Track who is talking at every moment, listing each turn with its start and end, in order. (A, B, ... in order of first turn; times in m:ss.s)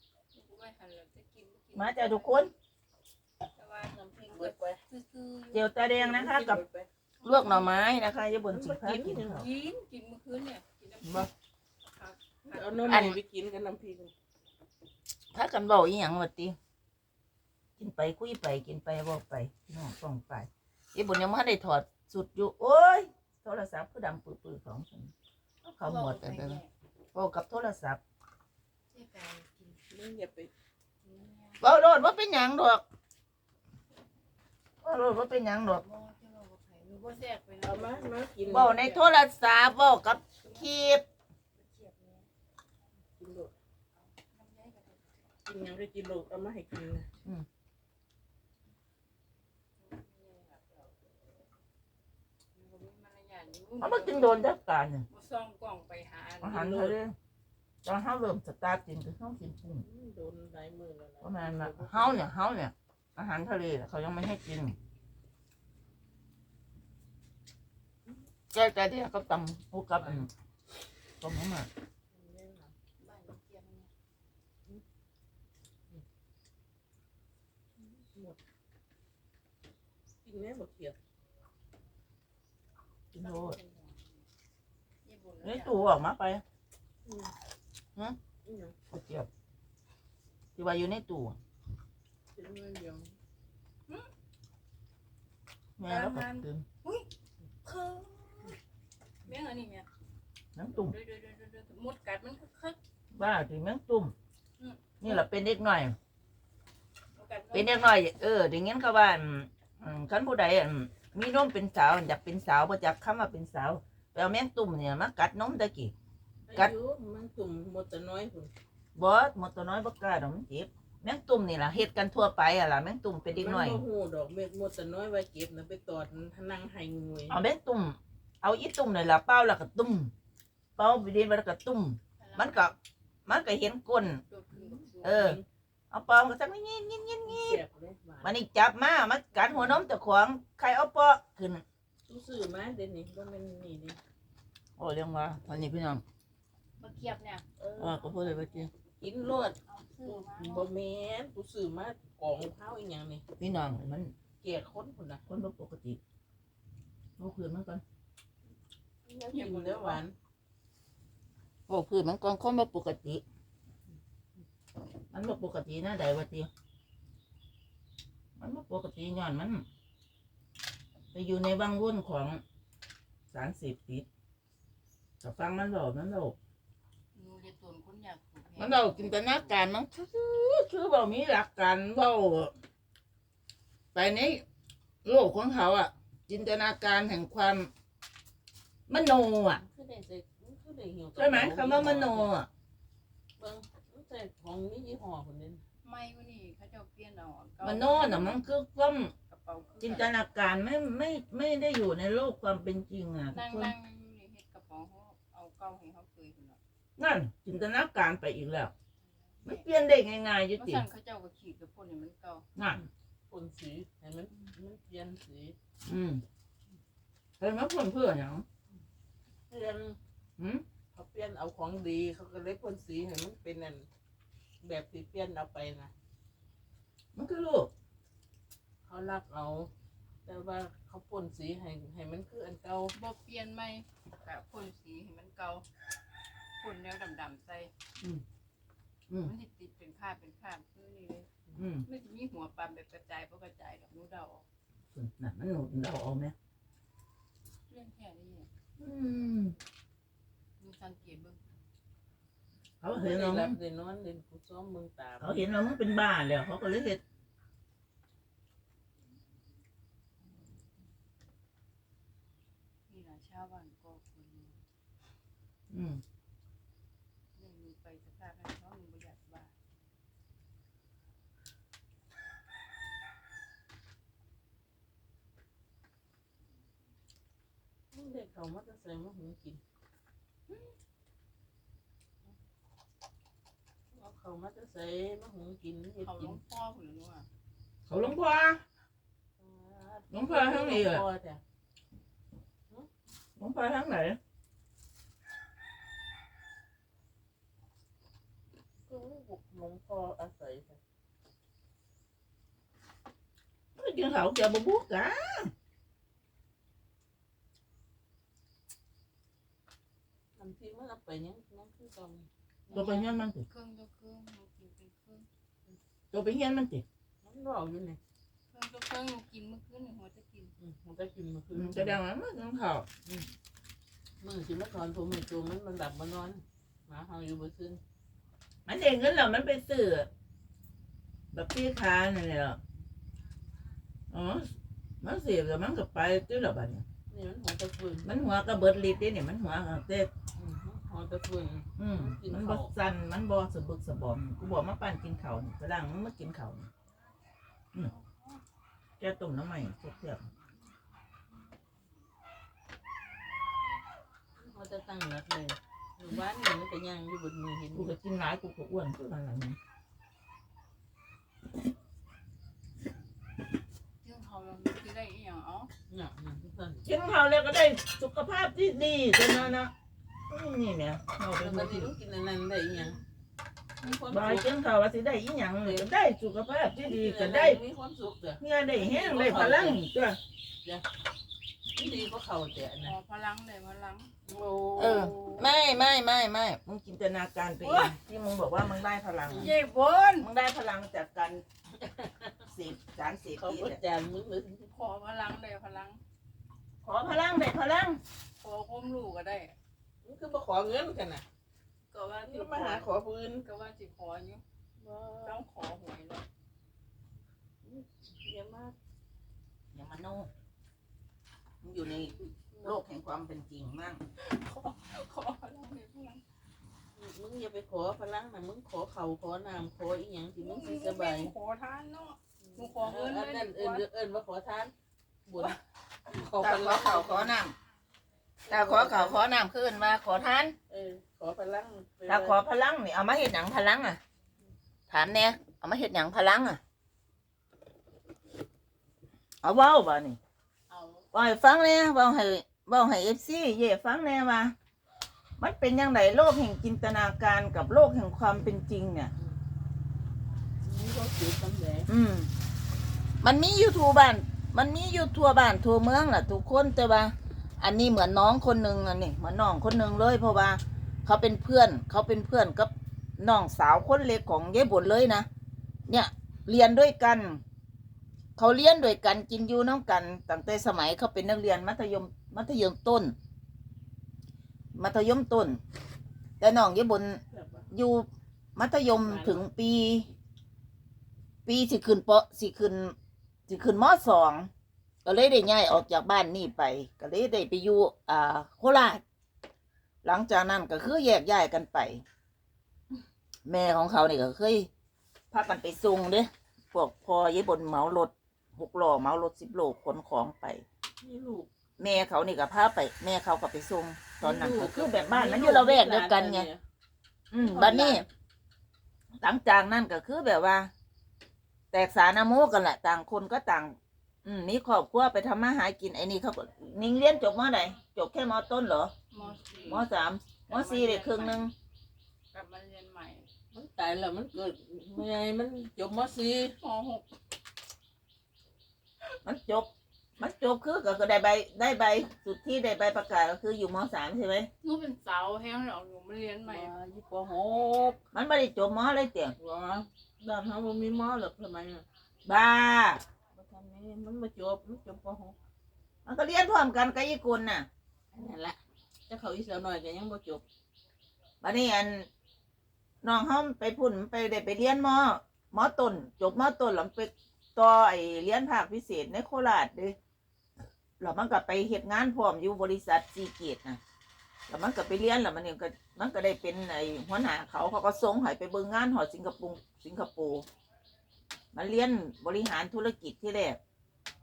0:00.3-0:02.5 A
0:01.7-0:02.5 B
0:03.5-0:05.7 A
0:03.9-0:04.8 C
0:05.5-0:06.6 B
0:05.8-0:06.9 C
0:07.2-0:07.9 A
0:07.2-0:09.5 B
0:08.5-0:09.5 C
0:09.3-0:11.3 A
0:11.8-0:13.1 A
0:12.5-0:14.1 C
0:12.9-0:13.2 B
0:15.3-0:16.6 B
0:17.8-0:25.1 B
0:25.6-0:26.7 A
0:25.8-0:26.6 B
0:27.1-0:28.0 B
0:28.9-0:29.8 A
0:29.9-0:30.5 C
0:31.0-0:31.8 A
0:31.6-0:32.8 B
0:34.8-0:35.8 B
0:35.6-0:39.1 A
0:37.6-0:38.8 C
0:38.5-0:41.0 B
0:41.6-0:42.3 A
0:43.2-0:43.5 C
0:44.0-0:45.2 A
0:45.4-0:47.1 C
0:49.8-0:50.9 A
0:52.5-0:54.5 A
0:53.8-0:55.1 B
0:55.1-0:56.9 A
0:56.4-0:57.2 B
0:57.8-0:59.8 B
0:59.8-1:02.2 C
1:01.2-1:04.8 B
1:08.5-1:10.3 B
1:10.0-1:10.2 C
1:11.2-1:11.7 B
1:12.1-1:12.7 C
1:13.0-1:13.9 A
1:17.8-1:18.4 C
1:20.2-1:21.0 C
1:23.1-1:24.2 A
1:23.1-1:23.6 B
1:25.0-1:25.9 A
1:25.4-1:26.4 B
1:27.0-1:27.3 C
1:28.4-1:28.8 C
1:28.9-1:29.3 B
1:30.6-1:31.4 B
1:32.3-1:33.1 C
1:35.8-1:36.7 B
1:35.8-1:37.1 A
1:37.6-1:38.5 A
1:39.3-1:39.9 A
1:40.6-1:41.0 B
1:40.7-1:42.8 A
1:43.2-1:44.1 B
1:44.6-1:45.2 A
1:45.0-1:46.0 B
1:47.2-1:47.8 A
1:47.5-1:55.9 B
1:56.5-1:58.5 C
1:59.0-2:03.8 B
2:03.3-2:07.4 C
2:07.3-2:10.1 B
2:10.8-2:12.8 B
2:12.2-2:12.8 A
2:13.3-2:14.2 B
2:14.0-2:15.3 A
2:14.5-2:15.4 C
2:15.0-2:15.4 B
2:15.9-2:17.6 B
2:17.3-2:18.4 C
2:18.2-2:21.6 B
2:22.1-2:24.0 C
2:24.8-2:26.0 B
2:26.8-2:27.4 A
2:27.6-2:28.1 C
2:27.8-2:28.7 B
2:28.1-2:28.7 A
2:29.0-2:33.2 C
2:29.7-2:30.7 A
2:33.4-2:34.1 B
2:34.4-2:35.2 C
2:35.3-2:36.0 B
2:37.2-2:37.8 B
2:39.1-2:40.2 C
2:39.3-2:40.0 A
2:41.7-2:43.2 B
2:45.1-2:46.5 B
2:48.4-2:49.6 B
2:51.1-2:52.4 B
2:53.3-2:54.1 B
2:55.2-2:56.4 B
2:57.1-2:59.6 A
2:58.6-3:02.5 B
3:03.9-3:04.4 B
3:05.0-3:07.7 B
3:08.9-3:09.6 B
3:09.6-3:12.3 C
3:11.2-3:12.5 B
3:13.4-3:15.6 C
3:15.8-3:18.5 A
3:17.6-3:19.1 B
3:19.3-3:20.1 A
3:19.8-3:23.7 B
3:23.3-3:26.6 A
3:27.0-3:28.7 B
3:29.4-3:29.6 A
3:29.4-3:30.8 B
3:30.6-3:32.5 A
3:32.6-3:32.9 B
3:33.3-3:35.6 C
3:35.8-3:36.2 B
3:37.4-3:38.4 B
3:39.5-3:40.0 C
3:40.4-3:40.6 B
3:40.9-3:43.9 C
3:44.6-3:45.9 C
3:47.1-3:47.7 B
3:48.8-3:49.7 C
3:50.3-3:52.9 C
3:52.9-3:55.6 A
3:56.6-3:57.7 A
3:59.2-4:01.3 A
4:01.6-4:01.9 B
4:01.9-4:04.5 A
4:04.9-4:06.4 B
4:07.7-4:08.5 A
4:08.8-4:09.6 B
4:10.6-4:11.4 A
4:12.8-4:13.6 B
4:12.9-4:15.5 C
4:15.2-4:17.0 B
4:22.9-4:24.6 A
4:25.7-4:26.0 B
4:27.4-4:29.5 A
4:37.9-4:39.6 C
4:43.9-4:46.4 C
4:46.0-4:47.3 A
4:47.9-4:48.6 B
4:49.4-4:51.4 C
4:50.1-4:51.1 B
4:53.4-4:54.2 B
4:58.9-5:00.8 C
5:03.8-5:05.5 B
5:10.4-5:12.3 C
5:12.7-5:15.3 A
5:12.7-5:13.4 B
5:16.1-5:16.8 B
5:17.2-5:18.0 C
5:18.5-5:20.5 A
5:20.6-5:22.0 C
5:21.5-5:22.9 B
5:24.2-5:27.8 C
5:28.7-5:30.1 B
5:31.3-5:32.6 B
5:34.1-5:34.5 B
5:35.0-5:36.8 B
5:37.1-5:38.1 C
5:38.0-5:40.1 B
5:40.4-5:42.7 C
5:41.8-5:46.7 B
5:47.8-5:48.3 A
5:49.0-5:50.3 B
5:54.4-5:58.0 C
5:57.7-5:59.6 B
6:04.0-6:05.7 A
6:05.9-6:06.9 C
6:06.8-6:09.7 B
6:10.3-6:11.9 B
6:11.4-6:13.0 C
6:13.8-6:14.5 C
6:14.1-6:17.6 B
6:15.6-6:15.9 C
6:16.8-6:19.8 C
6:18.4-6:20.2 B
6:21.8-6:23.0 C
6:22.8-6:24.3 A
6:24.3-6:25.5 C
6:24.8-6:29.5 B
6:27.6-6:28.0 A
6:29.3-6:29.5 C
6:29.4-6:30.3 A
6:30.2-6:31.4 B
6:31.8-6:32.3 C
6:32.4-6:33.8 B
6:33.4-6:34.7 C
6:34.7-6:36.0 A
6:36.8-6:38.0 B
6:38.4-6:39.6 A
6:40.0-6:41.2 C
6:41.9-6:42.9 A
6:42.3-6:43.4 C
6:43.4-6:44.4 A
6:44.8-6:45.4 C
6:45.2-6:46.2 A
6:47.6-6:48.8 C
6:49.7-6:50.3 B
6:51.6-6:54.0 B
6:52.6-6:52.8 C
6:54.2-6:56.2 A
6:57.0-7:01.3 C
7:00.4-7:03.9 A
7:02.5-7:04.7 C
7:05.3-7:05.6 C
7:06.1-7:07.4 C
7:06.4-7:07.6 B
7:08.5-7:09.3 C
7:08.5-7:10.6 B
7:10.7-7:12.4 C
7:12.1-7:14.0 B
7:14.9-7:16.6 B
7:19.4-7:20.2 B
7:20.7-7:21.1 A
7:21.1-7:24.6 B
7:25.4-7:29.1 B
7:30.6-7:31.9 C
7:31.9-7:32.3 B
7:33.2-7:45.3 B
7:45.9-7:47.4 B
7:48.4-7:53.2 B
7:54.8-7:55.6 B
7:56.4-7:57.2 B
7:57.3-7:57.7 C
7:57.7-8:00.1 B
7:59.0-7:59.5 C
8:01.5-8:03.0 B
8:03.5-8:04.5 B
8:05.0-8:09.0 B
8:10.0-8:12.0 B
8:13.5-8:14.7 B
8:15.3-8:20.6 B
8:21.0-8:21.5 C
8:21.8-8:26.5 B
8:24.2-8:26.6 C
8:27.3-8:28.1 B
8:27.4-8:28.1 C
8:29.2-8:30.7 B
8:31.7-8:38.9 B
8:39.1-8:39.9 A
8:39.2-8:39.8 C
8:39.7-8:41.5 B
8:40.5-8:41.5 A
8:42.3-8:43.3 A
8:43.5-8:46.6 C
8:46.6-8:47.1 A
8:49.2-8:54.5 B
8:54.6-8:56.8 A
8:56.4-8:58.0 C
8:58.1-8:59.4 B
8:59.4-9:01.9 C
9:02.2-9:03.0 B
9:03.3-9:05.4 C
9:06.0-9:07.7 B
9:08.1-9:10.4 C
9:11.4-9:12.1 B
9:13.0-9:20.0 B
9:21.0-9:23.8 B
9:24.5-9:30.4 B
9:31.5-9:33.6 B